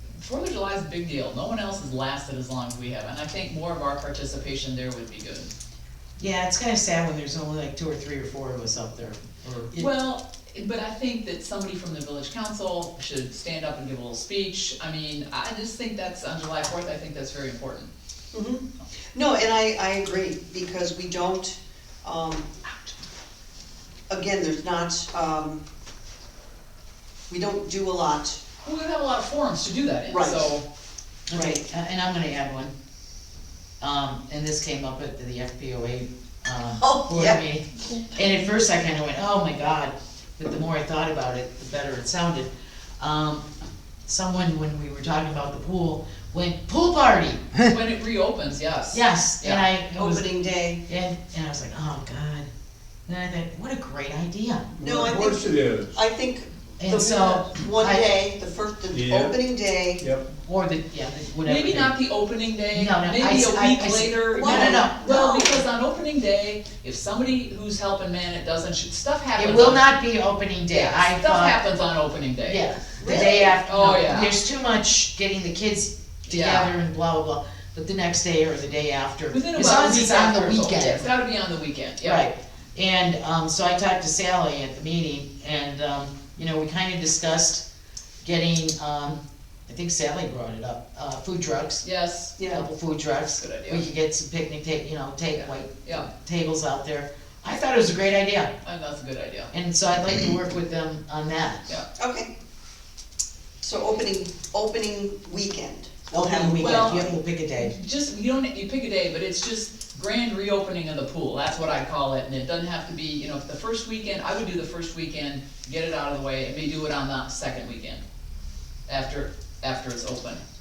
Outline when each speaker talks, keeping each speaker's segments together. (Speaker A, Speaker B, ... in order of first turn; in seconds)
Speaker A: 0.2-5.5, 9.8-17.9, 28.6-30.6, 47.7-49.6, 61.4-69.9, 70.7-74.3, 76.3-76.7, 79.3-82.3, 91.8-92.4, 93.4-93.8, 95.3-96.1, 98.6-99.5, 106.6-118.0, 118.9-120.4
Speaker B: 6.2-9.9, 31.3-32.7, 33.8-43.4, 44.1-47.7, 48.9-50.2, 50.9-52.5, 53.0-54.6, 56.8-58.1, 60.4-61.9, 62.7-65.1, 69.3-71.6, 72.5-81.1, 82.0-87.6, 88.2-91.8, 92.5-98.5, 99.5-101.6, 106.1-107.7
Speaker C: 18.3-22.5, 24.1-25.6, 27.3-28.4, 30.1-30.5, 31.3-31.6, 36.7-37.4, 49.9-50.8, 54.8-60.0, 64.3-65.6, 73.0-73.5, 92.4-92.7, 102.0-102.3, 103.6-107.1
Speaker D: 54.8-55.9, 58.9-59.4, 60.0-60.3